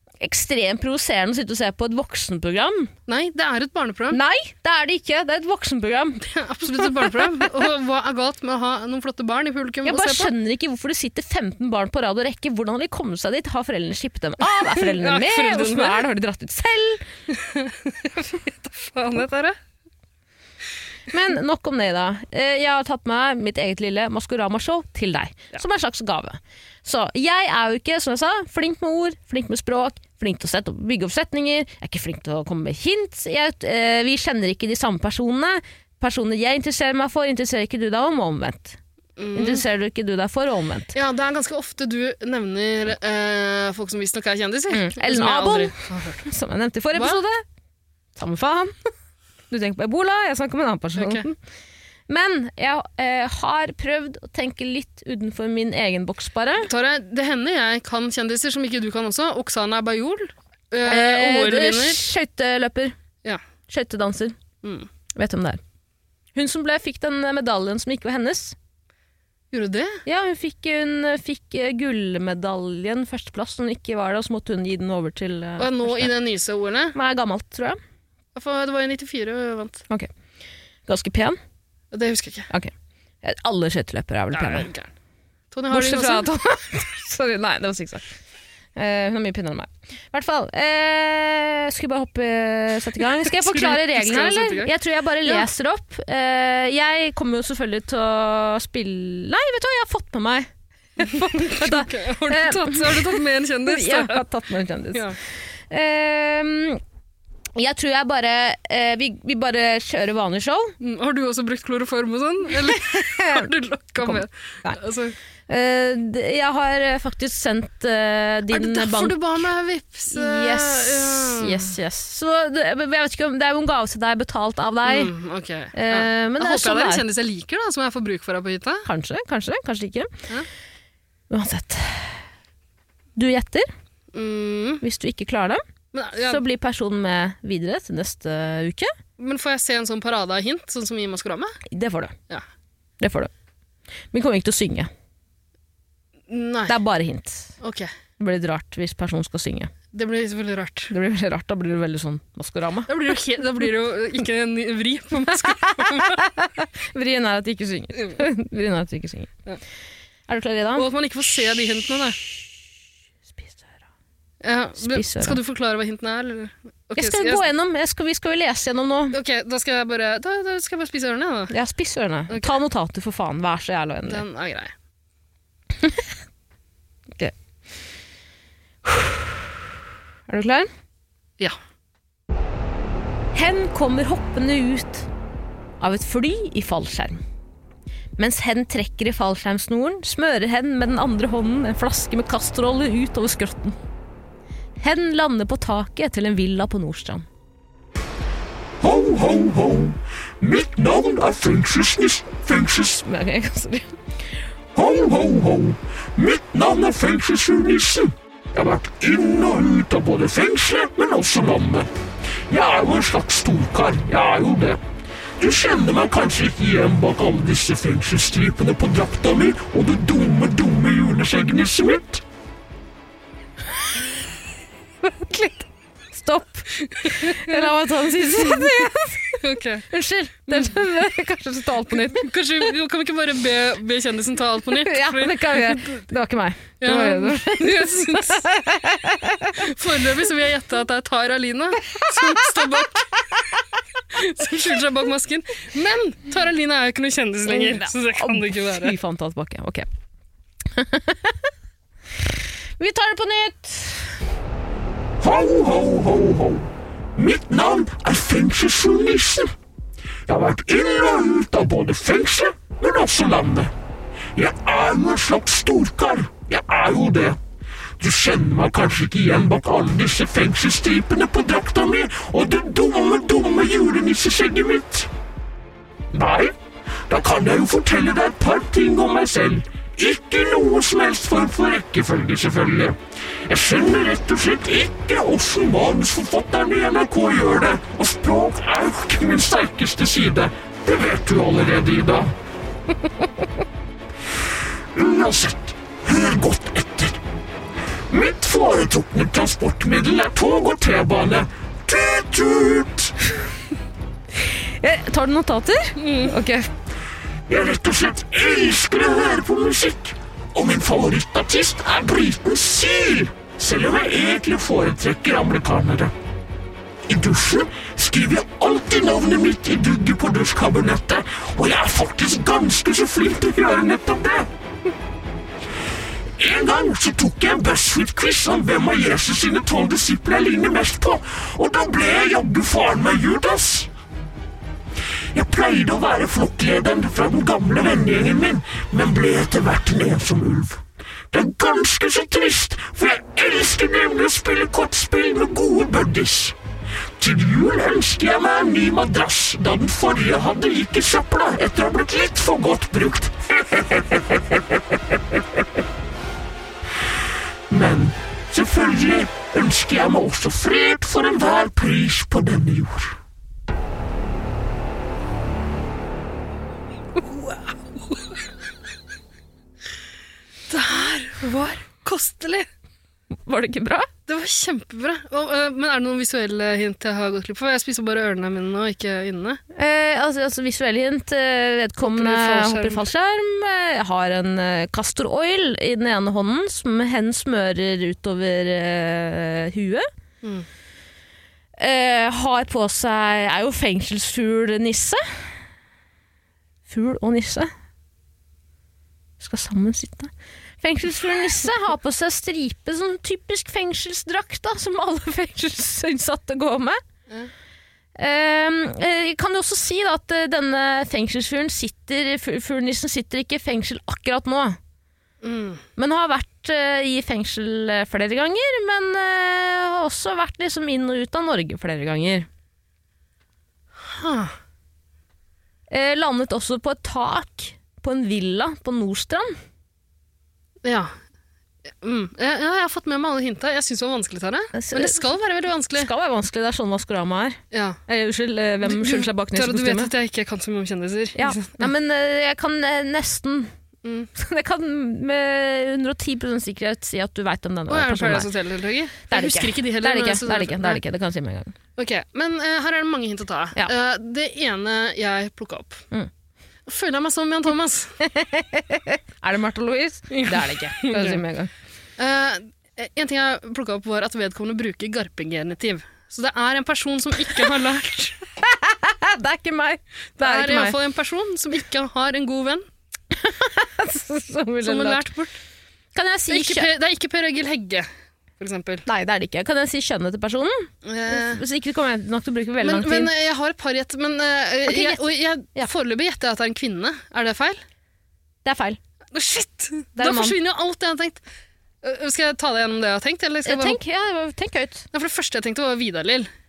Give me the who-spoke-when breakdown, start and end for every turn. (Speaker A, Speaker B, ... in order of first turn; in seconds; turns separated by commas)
Speaker A: 0.2-2.9, Speaker B: 3.1-4.2, Speaker A: 4.1-6.2, Speaker B: 6.2-10.3, Speaker A: 6.8-7.2, Speaker A: 9.8-17.1, Speaker B: 14.5-16.1, Speaker B: 17.3-19.6, Speaker A: 21.1-38.8, Speaker B: 39.2-39.6, Speaker A: 39.4-40.9, Speaker B: 40.9-46.2, Speaker A: 44.7-47.4, Speaker B: 46.9-47.2, Speaker A: 48.2-48.8, Speaker A: 49.5-51.4, Speaker B: 51.0-51.3, Speaker A: 52.1-56.7, Speaker B: 56.6-62.0, Speaker A: 60.9-63.0, Speaker A: 63.7-64.4, Speaker B: 64.6-64.9, Speaker A: 65.1-65.6, Speaker A: 66.3-68.5, Speaker B: 69.5-70.0, Speaker A: 70.1-76.1, Speaker B: 75.6-77.0, Speaker A: 76.9-77.8, Speaker B: 78.3-79.8, Speaker A: 80.9-81.4, Speaker B: 81.9-82.5, Speaker A: 83.2-84.7, Speaker B: 84.3-84.9, Speaker B: 85.5-86.3, Speaker A: 85.7-88.0, Speaker A: 88.8-105.2, Speaker B: 93.1-95.5, Speaker B: 101.0-104.2, Speaker A: 105.7-106.8, Speaker A: 107.5-110.7, Speaker B: 110.8-115.2, Speaker A: 112.7-113.5, Speaker A: 114.0-114.8, Speaker A: 115.5-119.2, Speaker B: 118.5-121.7, Speaker A: 120.1-125.1, Speaker B: 124.8-128.9, Speaker A: 125.7-127.0, Speaker A: 128.9-130.1, Speaker A: 131.3-132.2, Speaker A: 133.2-133.7, Speaker B: 134.1-134.8, Speaker A: 134.8-135.6, Speaker B: 135.9-136.4, Speaker A: 136.2-138.9, Speaker B: 139.2-141.6, Speaker A: 141.7-142.2, Speaker A: 143.0-143.3, Speaker A: 144.1-144.9, Speaker B: 146.3-146.8, Speaker A: 146.7-147.5, Speaker B: 147.6-147.9, Speaker A: 148.2-149.7, Speaker B: 149.9-150.9, Speaker A: 150.9-152.9, Speaker B: 152.9-156.2, Speaker A: 155.2-159.3, Speaker B: 158.0-158.2, Speaker A: 160.3-160.9, Speaker B: 160.8-162.2, Speaker A: 163.3-163.7, Speaker B: 164.4-167.5, Speaker A: 164.8-165.4, Speaker A: 167.0-169.2, Speaker B: 169.1-171.5, Speaker A: 171.5-174.2, Speaker B: 174.1-174.7, Speaker A: 180.3-180.7, Speaker A: 183.3-185.1, Speaker A: 185.8-187.2, Speaker A: 188.2-193.8, Speaker A: 194.8-197.3, Speaker C: 198.8-203.0, Speaker A: 203.0-203.9, Speaker C: 204.8-211.9, Speaker C: 212.5-214.8, Speaker C: 215.4-222.2, Speaker A: 225.0-229.4, Speaker B: 226.8-229.9, Speaker A: 229.9-232.3, Speaker B: 230.5-230.8, Speaker B: 231.9-236.0, Speaker A: 234.8-239.7, Speaker B: 236.8-238.5, Speaker B: 239.6-243.1, Speaker A: 241.9-242.5, Speaker B: 244.1-249.0, Speaker A: 247.5-249.9, Speaker A: 250.8-251.4, Speaker A: 252.8-254.1, Speaker C: 255.2-259.5, Speaker C: 260.3-263.7, Speaker C: 264.4-267.4, Speaker C: 268.0-275.1, Speaker C: 276.1-276.6, Speaker C: 277.1-292.3, Speaker C: 294.9-297.2, Speaker C: 298.1-303.1, Speaker A: 304.4-306.7, Speaker B: 306.0-306.4, Speaker C: 307.5-316.1, Speaker C: 317.1-324.5, Speaker C: 326.4-333.9, Speaker C: 335.3-346.6, Speaker C: 347.2-354.6, Speaker C: 357.7-363.1, Speaker B: 367.2-368.4, Speaker B: 370.7-372.7, Speaker A: 373.4-374.1, Speaker B: 374.3-379.6, Speaker A: 379.7-390.1, Speaker B: 382.0-383.1, Speaker B: 390.4-390.7, Speaker A: 391.8-395.2, Speaker A: 396.9-397.7, Speaker A: 399.4-407.0, Speaker A: 408.2-414.8, Speaker B: 415.4-415.8, Speaker A: 416.0-422.5, Speaker B: 424.0-424.6, Speaker A: 425.9-429.5, Speaker B: 430.8-431.1, Speaker B: 431.9-436.1, Speaker A: 434.7-435.3, Speaker A: 435.9-440.1, Speaker B: 437.7-438.0, Speaker B: 438.8-441.9, Speaker A: 441.4-443.7, Speaker B: 444.0-444.3, Speaker A: 444.4-448.5, Speaker B: 447.9-451.0, Speaker A: 449.3-451.7, Speaker B: 452.0-456.1, Speaker B: 456.9-458.2, Speaker A: 458.2-461.7, Speaker B: 460.3-461.4, Speaker B: 462.2-468.4, Speaker A: 468.6-471.0, Speaker B: 470.4-472.9, Speaker A: 473.3-475.3, Speaker B: 474.8-475.6, Speaker A: 476.1-476.9, Speaker B: 476.5-479.1, Speaker A: 479.1-483.3, Speaker B: 481.0-481.6, Speaker B: 482.8-487.8, Speaker A: 484.9-485.9, Speaker A: 488.6-489.0, Speaker B: 489.3-491.4, Speaker A: 490.2-490.6, Speaker B: 492.0-494.0, Speaker A: 493.7-495.1, Speaker B: 495.1-496.5